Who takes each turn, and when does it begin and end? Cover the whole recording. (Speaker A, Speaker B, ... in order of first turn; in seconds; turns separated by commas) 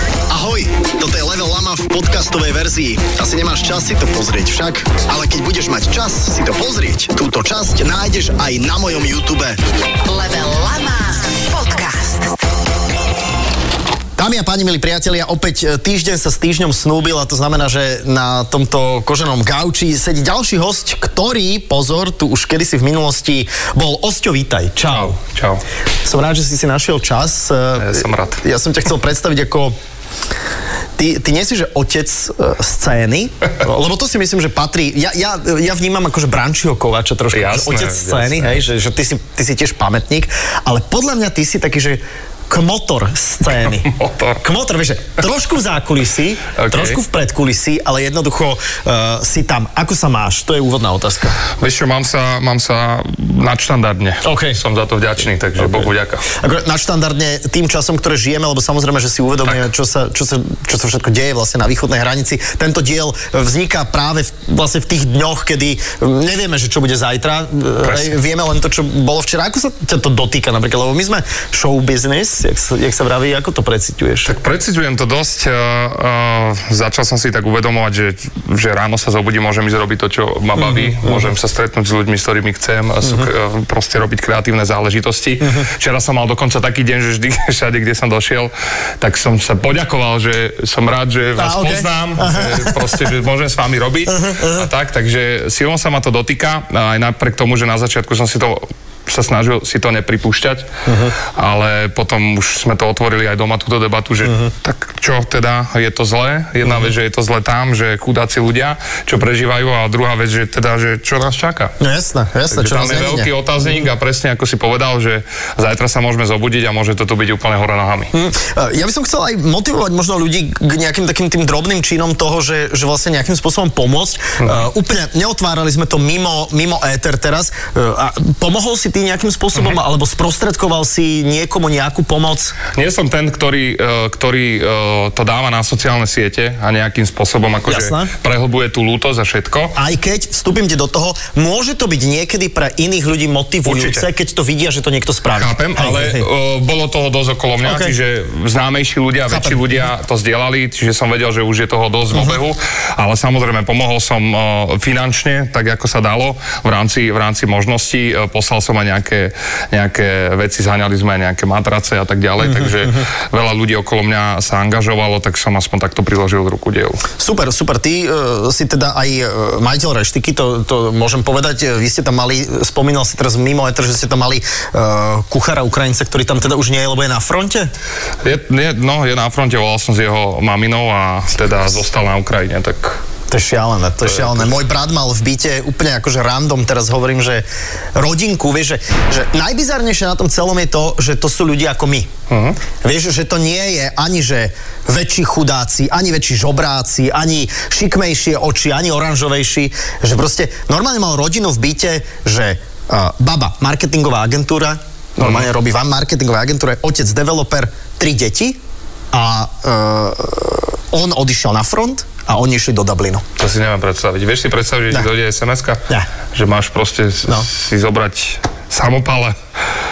Speaker A: 0.3-9.6, Speaker B: 10.1-12.4, Speaker A: 14.2-25.1, Speaker C: 24.9-25.6, Speaker A: 26.0-29.8, Speaker C: 27.7-28.4, Speaker A: 31.0-43.9, Speaker C: 37.3-38.6, Speaker C: 43.6-44.4, Speaker A: 44.4-51.4, Speaker C: 46.5-47.0, Speaker C: 51.6-56.3, Speaker A: 54.2-54.6, Speaker A: 55.6-74.3, Speaker C: 67.8-68.1, Speaker C: 74.2-111.7, Speaker A: 80.5-81.3, Speaker A: 83.0-83.3, Speaker A: 85.4-85.7, Speaker A: 91.3-93.1, Speaker A: 94.1-94.7, Speaker A: 100.8-101.1, Speaker A: 104.2-104.5, Speaker A: 106.6-106.9, Speaker A: 111.8-113.8, Speaker C: 112.5-118.1, Speaker A: 118.1-132.5, Speaker C: 132.7-139.8, Speaker A: 137.7-138.1, Speaker A: 139.8-146.2, Speaker C: 143.6-144.1, Speaker C: 145.3-167.0, Speaker A: 147.6-147.9, Speaker A: 149.3-149.8, Speaker A: 152.1-152.4, Speaker A: 162.4-163.0, Speaker A: 167.2-177.7, Speaker C: 178.2-183.0, Speaker A: 183.3-192.1, Speaker C: 184.0-184.5, Speaker C: 192.3-192.6, Speaker A: 192.8-208.6, Speaker C: 205.2-205.5, Speaker A: 209.1-213.2, Speaker C: 213.4-219.3